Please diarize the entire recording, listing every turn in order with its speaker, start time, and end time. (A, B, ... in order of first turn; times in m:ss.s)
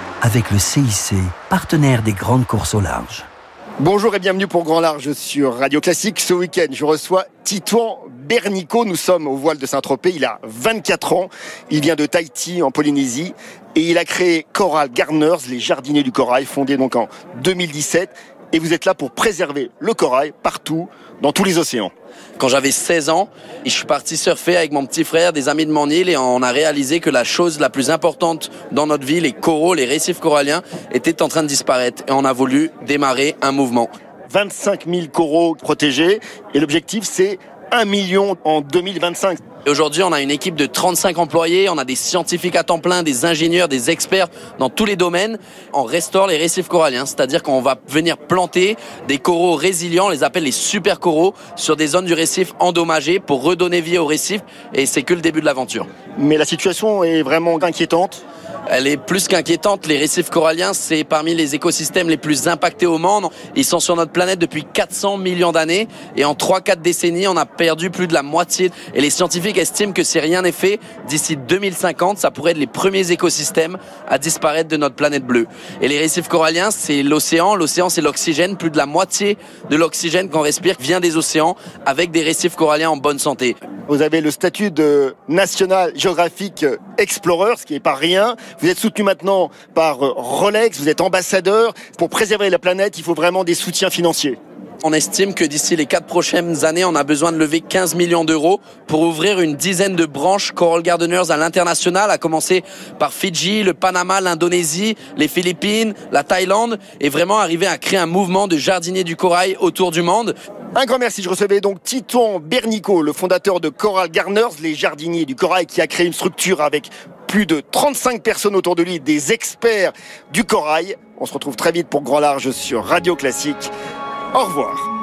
0:00.2-0:03.3 A
0:03.8-0:21.9 B
0:22.4-0:33.9 C
0:34.3-0:39.4 B
0:39.6-0:55.9 C
0:56.2-0:58.2 B
0:58.7-1:23.6 C
1:23.9-1:34.4 B
1:34.8-1:50.3 C
1:50.8-2:03.7 B
2:04.3-2:04.9 B